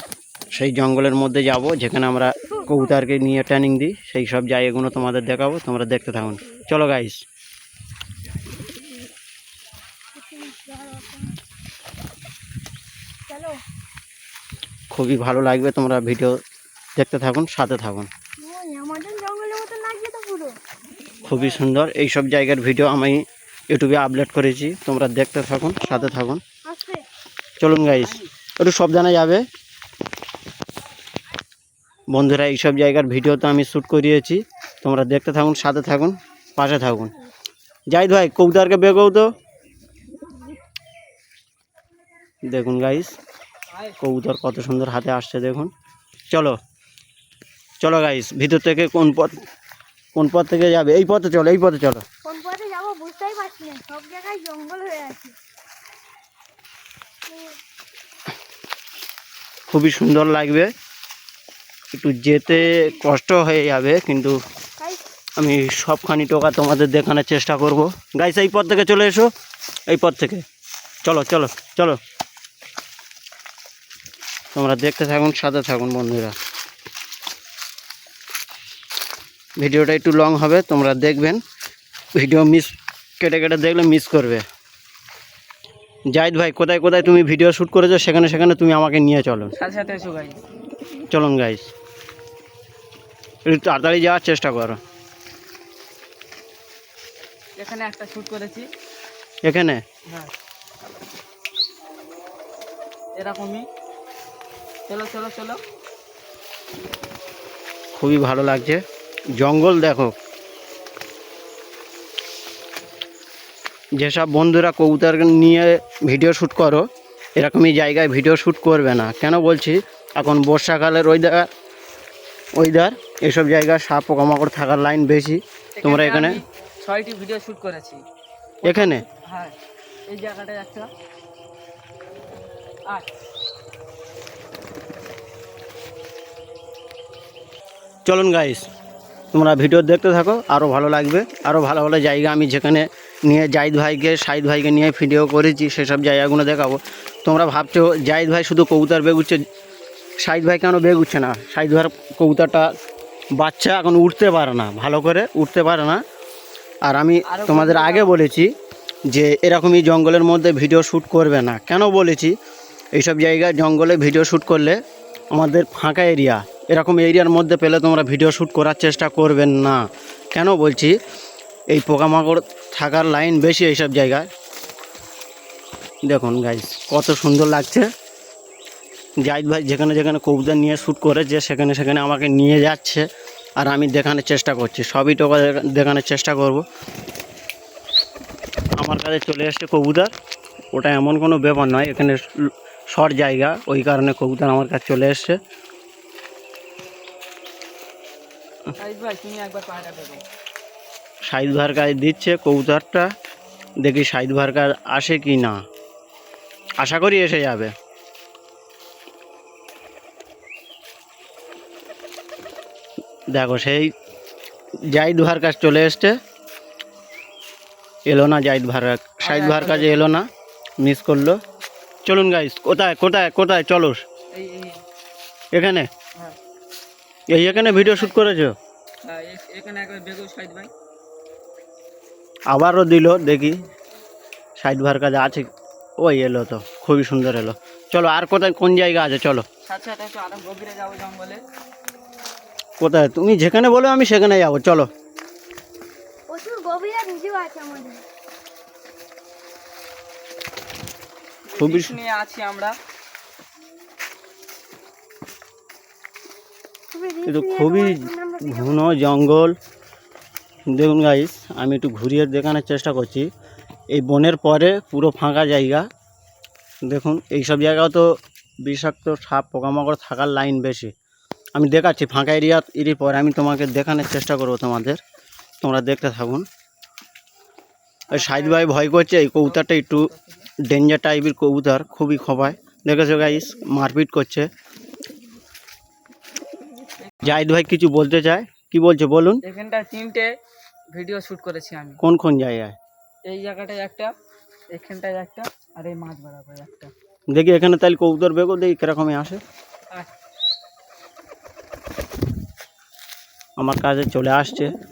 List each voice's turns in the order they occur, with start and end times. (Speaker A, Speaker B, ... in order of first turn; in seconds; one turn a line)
Speaker A: 0.5-7.2
Speaker B: 10.1-11.4
Speaker B: 13.3-13.6
Speaker A: 14.9-16.4
Speaker A: 16.9-18.1
Speaker B: 18.4-20.5
Speaker A: 21.2-26.4
Speaker C: 21.3-21.6
Speaker B: 26.6-27.0
Speaker A: 27.6-29.4
Speaker A: 32.1-37.1
Speaker A: 37.9-39.3
Speaker A: 42.5-43.1
Speaker A: 44.0-45.7
Speaker A: 46.3-46.6
Speaker A: 47.8-49.4
Speaker A: 50.1-52.0
Speaker B: 52.2-55.3
Speaker B: 57.3-57.5
Speaker A: 59.7-60.7
Speaker A: 61.9-64.4
Speaker A: 65.4-69.3
Speaker A: 69.9-70.4
Speaker A: 71.0-72.0
Speaker A: 74.5-76.3
Speaker A: 79.6-81.4
Speaker A: 82.1-84.4
Speaker A: 86.1-89.5
Speaker C: 89.5-90.4
Speaker A: 91.1-91.7
Speaker A: 93.5-94.8
Speaker C: 97.6-98.7
Speaker A: 99.4-99.8
Speaker C: 103.2-103.7
Speaker C: 104.9-105.6
Speaker A: 107.9-108.8
Speaker A: 109.4-110.1
Speaker A: 114.0-116.8
Speaker A: 117.4-121.5
Speaker A: 122.6-126.4
Speaker C: 125.8-128.0
Speaker C: 128.6-129.5
Speaker A: 128.6-129.0
Speaker C: 130.1-130.9
Speaker A: 138.1-138.7
Speaker A: 139.3-149.4
Speaker A: 150.2-152.7
Speaker A: 153.4-156.0
Speaker A: 156.8-158.5
Speaker C: 157.3-158.1
Speaker A: 159.1-162.3
Speaker A: 162.9-164.8
Speaker A: 165.3-170.9
Speaker A: 171.7-174.3
Speaker A: 176.1-177.9
Speaker A: 179.2-183.1
Speaker A: 183.6-186.6
Speaker A: 188.8-190.1
Speaker A: 190.7-192.2
Speaker A: 192.9-195.4
Speaker C: 198.8-200.2
Speaker A: 201.3-203.1
Speaker A: 203.8-205.6
Speaker A: 206.8-207.7
Speaker A: 213.3-213.9
Speaker A: 214.8-216.2
Speaker A: 218.1-220.3
Speaker C: 219.2-220.1
Speaker A: 220.8-221.4
Speaker A: 222.1-224.0
Speaker C: 224.3-224.8
Speaker A: 225.5-225.9
Speaker A: 227.3-228.5
Speaker C: 227.3-228.2
Speaker C: 229.0-230.7
Speaker A: 232.5-233.6
Speaker A: 234.6-235.5
Speaker A: 236.0-239.4
Speaker C: 239.7-241.4
Speaker A: 242.8-244.9
Speaker B: 246.3-248.0
Speaker C: 251.5-252.8
Speaker A: 251.6-251.9
Speaker B: 256.9-258.9
Speaker A: 257.3-259.5
Speaker A: 260.7-263.2
Speaker A: 263.9-265.8
Speaker A: 266.9-268.1
Speaker A: 268.6-270.9
Speaker A: 271.6-275.0
Speaker A: 275.6-276.4
Speaker C: 278.1-278.7
Speaker A: 278.1-280.1
Speaker C: 279.4-280.5
Speaker A: 280.6-284.5
Speaker C: 287.0-287.3
Speaker A: 287.2-289.4
Speaker C: 289.4-290.3
Speaker C: 290.9-292.0
Speaker A: 292.0-292.8
Speaker C: 293.2-294.1
Speaker C: 294.7-296.9
Speaker A: 297.3-299.4
Speaker A: 303.6-304.7